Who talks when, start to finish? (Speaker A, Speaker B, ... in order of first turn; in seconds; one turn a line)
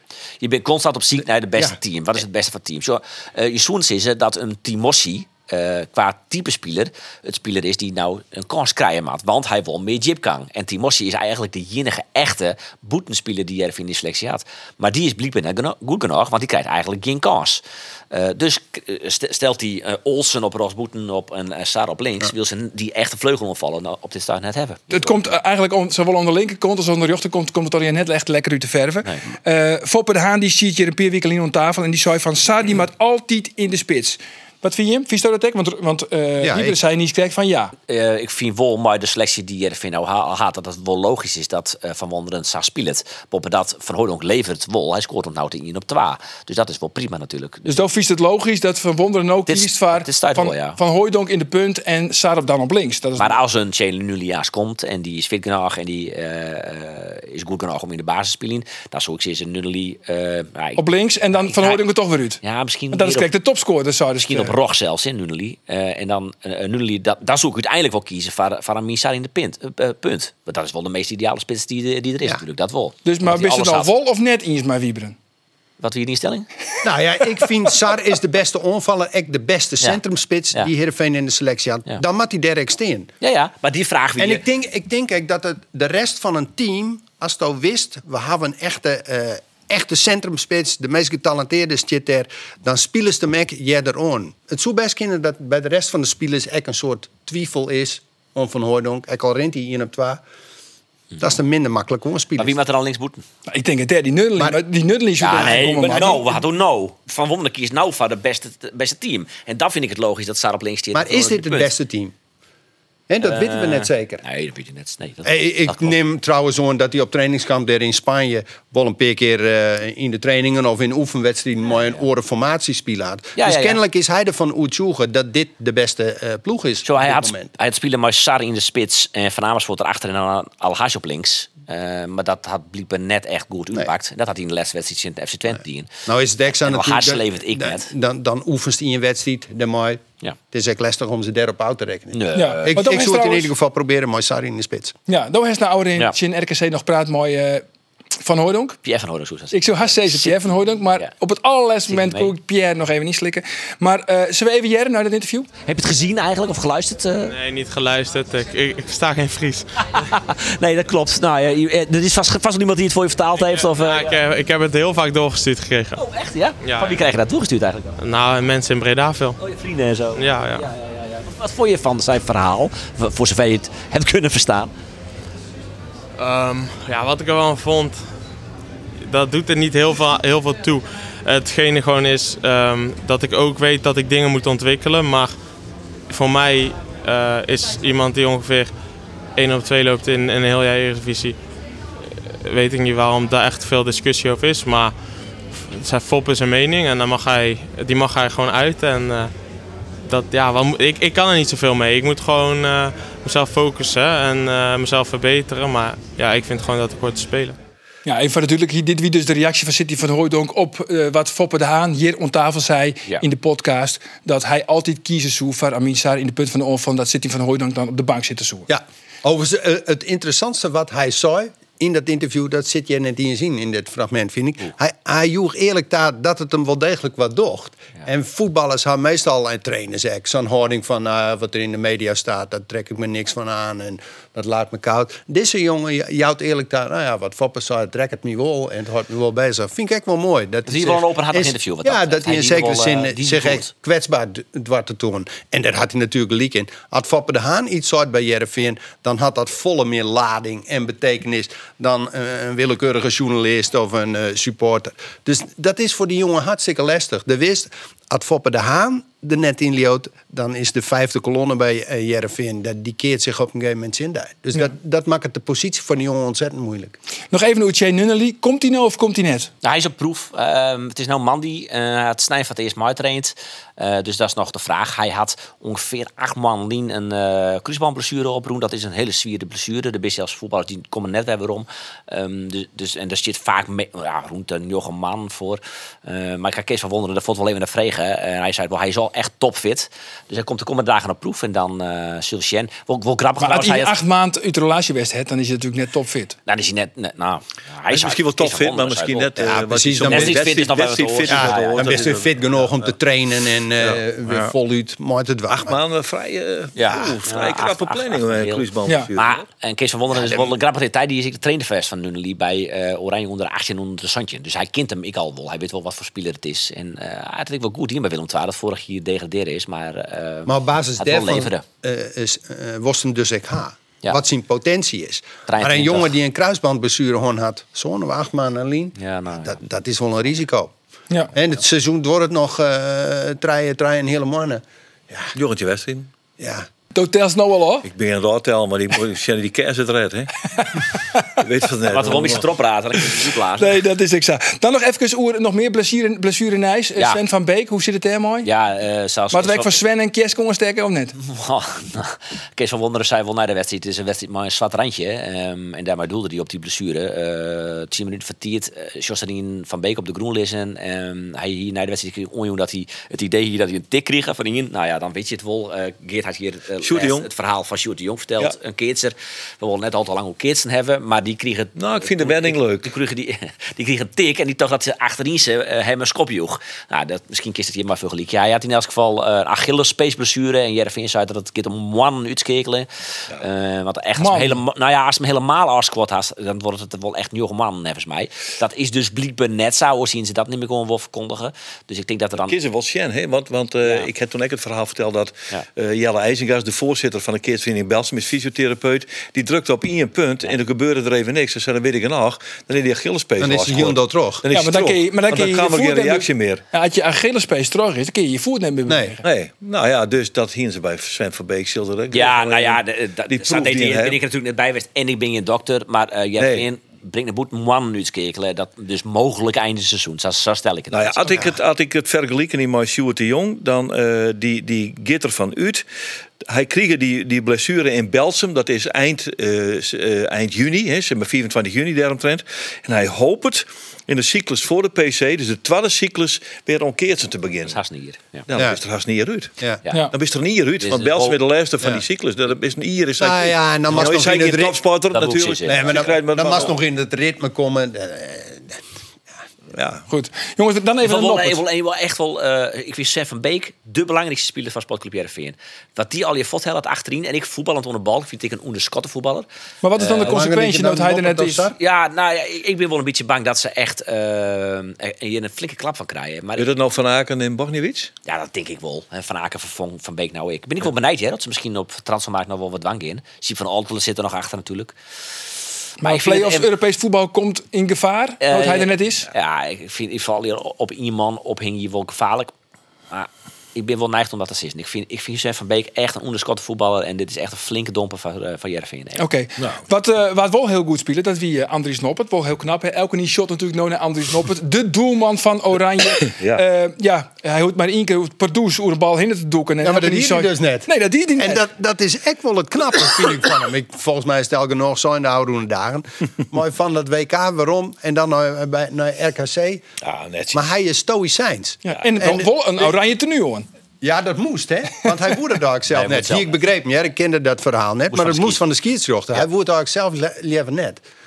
Speaker A: 0.4-25.2
Speaker B: 24.9-37.7
Speaker C: 36.4-36.8
Speaker A: 37.9-47.8
Speaker B: 47.6-53.3
Speaker A: 49.5-50.8
Speaker A: 53.2-60.8
Speaker B: 60.8-62.4
Speaker A: 61.4-61.9
Speaker A: 62.4-63.3
Speaker B: 62.9-64.5
Speaker A: 64.2-73.9
Speaker B: 73.0-75.2
Speaker A: 75.8-76.5
Speaker C: 76.8-83.1
Speaker A: 83.2-84.4
Speaker C: 84.2-100.2
Speaker C: 101.2-102.5
Speaker A: 102.4-103.2
Speaker B: 103.5-106.2
Speaker A: 105.2-111.7
Speaker C: 105.3-106.3
Speaker C: 110.9-112.1
Speaker C: 113.1-114.2
Speaker A: 113.2-116.0
Speaker C: 115.2-127.5
Speaker A: 123.4-123.8
Speaker A: 126.8-135.9
Speaker C: 136.1-144.9
Speaker A: 136.6-137.9
Speaker A: 142.1-142.9
Speaker B: 142.3-143.5
Speaker B: 145.1-147.6
Speaker B: 148.2-148.8
Speaker A: 148.8-150.3
Speaker B: 149.5-155.5
Speaker A: 151.9-152.3
Speaker A: 155.7-157.3
Speaker D: 157.2-159.7
Speaker A: 159.8-164.2
Speaker D: 163.6-166.0
Speaker A: 165.9-168.0
Speaker D: 166.6-167.0
Speaker D: 168.0-169.4
Speaker A: 169.4-174.7
Speaker D: 170.1-170.7
Speaker D: 176.2-178.0
Speaker D: 179.0-185.3
Speaker D: 186.1-188.7
Speaker D: 189.3-191.4
Speaker D: 192.3-194.9
Speaker D: 195.5-199.3
Speaker D: 200.1-207.6
Speaker B: 208.1-218.7
Speaker C: 218.7-266.9
Speaker A: 240.7-243.7
Speaker B: 267.3-269.5
Speaker A: 269.6-293.9
Speaker B: 293.4-296.4
Speaker A: 296.5-302.1
Speaker E: 297.9-302.7
Speaker C: 299.4-300.4
Speaker C: 301.3-305.8
Speaker E: 303.8-304.5
Speaker E: 305.5-309.4
Speaker A: 306.8-321.6
Speaker C: 320.4-330.7
Speaker A: 325.5-326.1
Speaker A: 329.0-329.6
Speaker C: 331.3-335.3
Speaker E: 335.3-336.1
Speaker C: 336.4-336.6
Speaker B: 336.9-337.9
Speaker E: 337.8-342.5
Speaker B: 340.6-341.3
Speaker A: 341.9-343.8
Speaker B: 343.6-348.5
Speaker A: 348.4-349.8
Speaker B: 349.3-351.1
Speaker A: 351.2-392.6
Speaker E: 366.8-367.3
Speaker E: 371.8-372.9
Speaker B: 384.2-384.6
Speaker E: 392.5-406.6
Speaker A: 393.8-394.1
Speaker C: 403.4-404.4
Speaker B: 404.5-409.2
Speaker C: 408.9-409.1
Speaker E: 409.2-414.2
Speaker A: 412.1-421.5
Speaker E: 416.4-416.7
Speaker E: 420.9-425.8
Speaker E: 426.5-437.8
Speaker A: 437.6-438.4
Speaker E: 438.5-439.5
Speaker C: 438.5-438.8
Speaker E: 440.1-446.7
Speaker A: 440.8-441.4
Speaker C: 443.2-444.8
Speaker A: 445.1-446.1
Speaker C: 445.6-448.8
Speaker E: 449.7-450.1
Speaker B: 450.1-451.6
Speaker A: 451.0-459.4
Speaker B: 459.8-461.7
Speaker C: 460.0-461.8
Speaker A: 461.8-466.7
Speaker E: 466.6-468.1
Speaker A: 468.2-474.9
Speaker B: 476.0-479.3
Speaker A: 476.0-476.7
Speaker A: 478.4-482.5
Speaker A: 483.1-489.2
Speaker B: 489.2-501.6
Speaker E: 496.4-496.6
Speaker C: 499.8-509.8
Speaker E: 510.0-510.6
Speaker C: 510.5-512.5
Speaker B: 511.8-513.7
Speaker C: 514.0-521.0
Speaker A: 515.9-516.6
Speaker A: 518.1-518.6